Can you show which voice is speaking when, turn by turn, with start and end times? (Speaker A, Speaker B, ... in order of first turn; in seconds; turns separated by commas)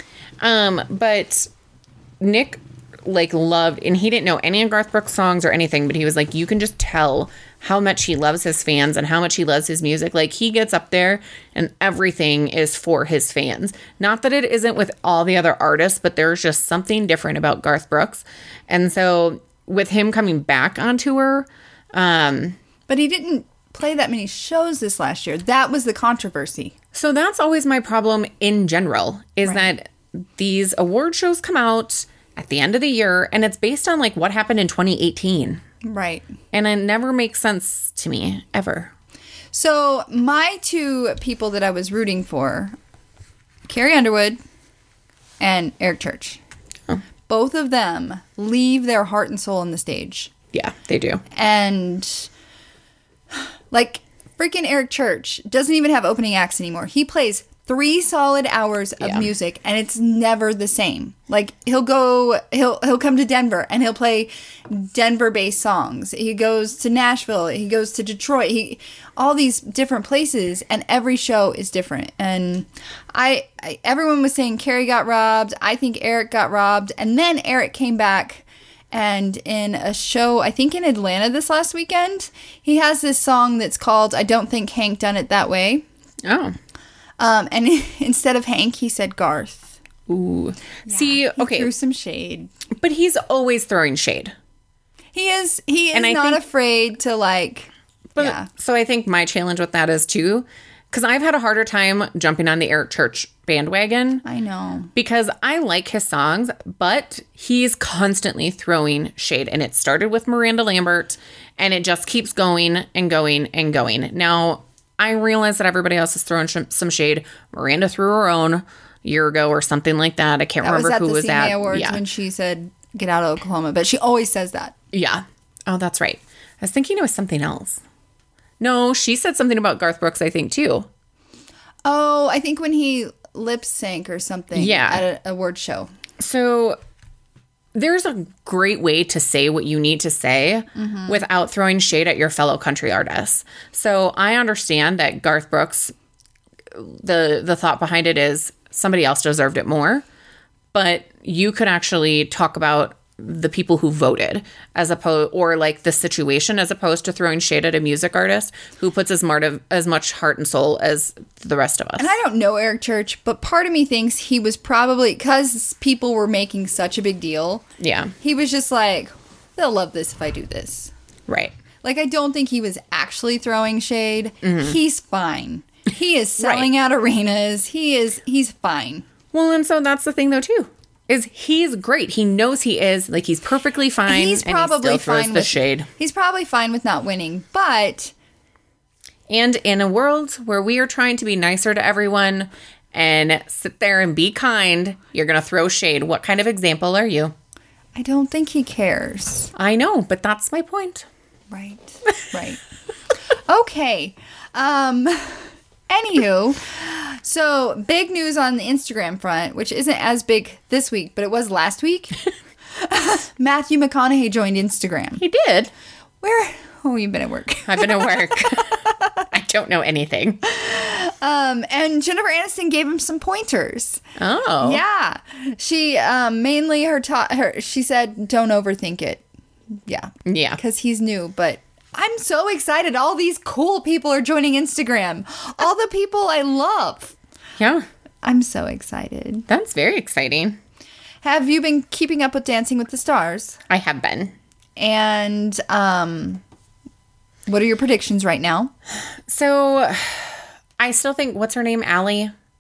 Speaker A: 0.4-1.5, Speaker A: 2.2-22.6, Speaker B: 22.9-26.7, Speaker A: 26.9-35.6, Speaker B: 29.4-29.7, Speaker B: 35.8-36.3, Speaker A: 36.5-38.9, Speaker B: 39.5-42.8, Speaker B: 43.7-44.4, Speaker B: 45.4-46.4, Speaker B: 47.3-50.3, Speaker A: 50.5-51.2, Speaker B: 51.3-52.3, Speaker B: 53.3-85.9, Speaker A: 59.0-59.3, Speaker A: 86.2-86.6, Speaker B: 87.2-89.7, Speaker A: 90.1-91.7, Speaker B: 90.9-92.5, Speaker A: 92.8-94.3, Speaker B: 95.1-98.5, Speaker A: 95.9-96.4, Speaker A: 98.2-104.2, Speaker B: 104.2-104.9, Speaker A: 105.0-122.0, Speaker B: 120.6-124.7, Speaker A: 124.9-127.8, Speaker A: 128.6-130.9, Speaker B: 131.8-135.9, Speaker A: 134.5-135.0, Speaker A: 136.2-136.8, Speaker A: 137.8-145.9, Speaker B: 140.8-141.2, Speaker A: 146.7-150.1, Speaker A: 150.7-162.1, Speaker B: 162.0-167.6, Speaker A: 167.8-168.1, Speaker B: 168.2-170.9, Speaker A: 171.3-171.5, Speaker B: 171.8-179.1, Speaker A: 174.4-174.8, Speaker A: 176.4-176.7, Speaker A: 179.3-185.9, Speaker B: 184.1-188.1, Speaker A: 189.3-197.3, Speaker B: 197.9-199.5, Speaker A: 199.6-201.1, Speaker B: 201.5-202.6, Speaker B: 203.3-215.2, Speaker A: 215.2-215.7, Speaker B: 216.2-219.3, Speaker A: 217.7-220.4, Speaker B: 220.4-224.0, Speaker A: 224.2-224.8, Speaker B: 224.6-229.2, Speaker B: 229.9-237.2, Speaker A: 230.3-230.6, Speaker A: 237.6-237.9, Speaker B: 238.2-239.5, Speaker A: 239.5-240.6, Speaker B: 241.2-243.6, Speaker A: 243.7-244.3, Speaker B: 244.8-246.4, Speaker B: 247.5-248.7, Speaker A: 249.3-252.3